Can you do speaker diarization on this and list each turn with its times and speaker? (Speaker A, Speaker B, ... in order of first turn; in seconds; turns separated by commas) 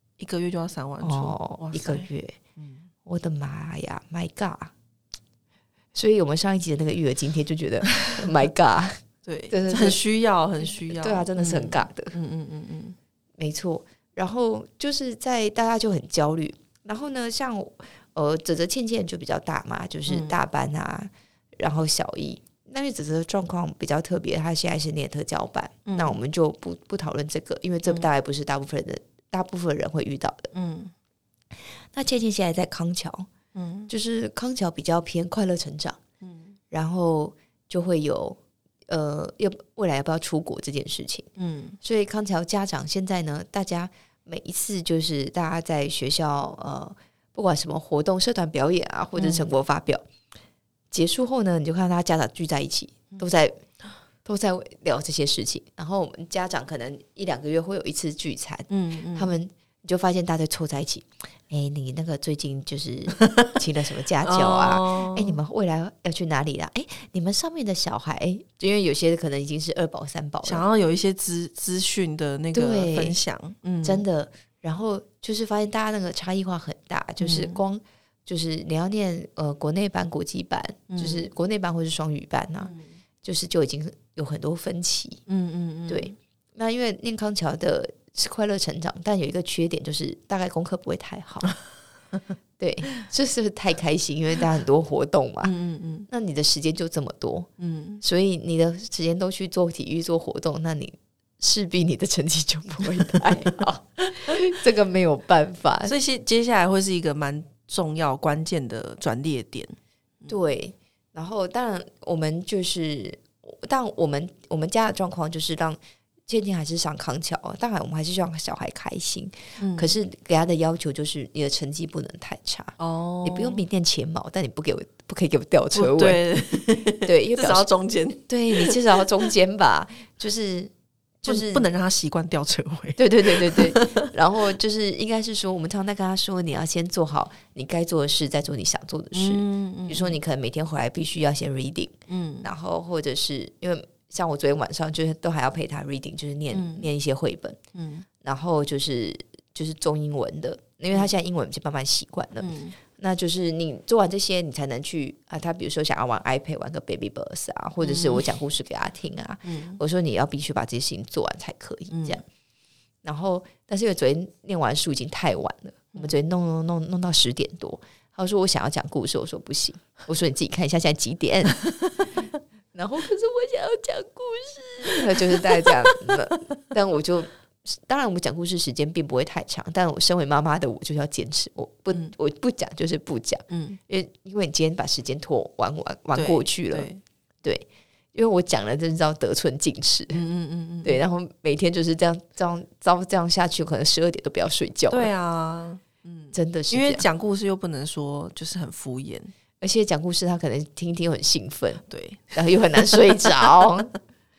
Speaker A: 0.2-2.9, Speaker B: 1.0-2.4, Speaker B: 3.0-4.7, Speaker B: 5.9-9.0, Speaker A: 9.2-12.9, Speaker B: 9.5-10.0, Speaker B: 10.8-12.1, Speaker B: 13.4-30.5, Speaker A: 20.1-20.4, Speaker A: 25.8-26.2, Speaker A: 30.5-30.9, Speaker B: 31.9-33.3, Speaker A: 33.5-33.9, Speaker B: 33.9-36.0, Speaker A: 36.2-36.5, Speaker B: 36.7-41.3, Speaker A: 41.4-41.8, Speaker B: 41.8-50.0, Speaker A: 49.1-49.5, Speaker B: 50.9-53.6, Speaker B: 54.2-70.7, Speaker A: 58.7-59.3, Speaker A: 63.2-63.6, Speaker A: 64.2-65.4, Speaker A: 70.4-74.0, Speaker B: 72.5-73.2, Speaker B: 73.8-85.2, Speaker A: 77.2-77.6, Speaker A: 80.9-81.3, Speaker A: 82.6-82.9, Speaker A: 85.3-86.2, Speaker B: 85.9-91.5, Speaker B: 92.6-95.5, Speaker A: 95.4-96.1, Speaker B: 96.1-97.5, Speaker A: 97.6-98.0, Speaker B: 98.0-106.0, Speaker A: 105.8-110.4, Speaker B: 110.3-126.2, Speaker A: 119.6-119.9, Speaker A: 122.8-123.6, Speaker A: 125.7-129.0, Speaker B: 127.0-127.7, Speaker B: 128.3-130.7, Speaker B: 131.2-131.7, Speaker A: 131.2-134.1, Speaker B: 133.0-147.6, Speaker A: 139.1-140.2, Speaker A: 142.1-142.5, Speaker A: 146.5-146.9, Speaker A: 147.7-148.1, Speaker B: 148.2-162.2, Speaker A: 152.4-152.8, Speaker A: 157.8-158.3, Speaker A: 159.4-159.8, Speaker A: 161.9-162.2, Speaker B: 163.0-171.7, Speaker A: 171.6-172.1, Speaker B: 172.7-186.9, Speaker A: 183.5-183.8, Speaker A: 186.1-187.0, Speaker B: 187.4-190.2, Speaker A: 190.1-191.0, Speaker B: 190.8-195.1, Speaker A: 194.9-199.3, Speaker B: 196.3-197.1, Speaker B: 199.6-201.8, Speaker A: 201.9-203.3, Speaker B: 202.3-203.9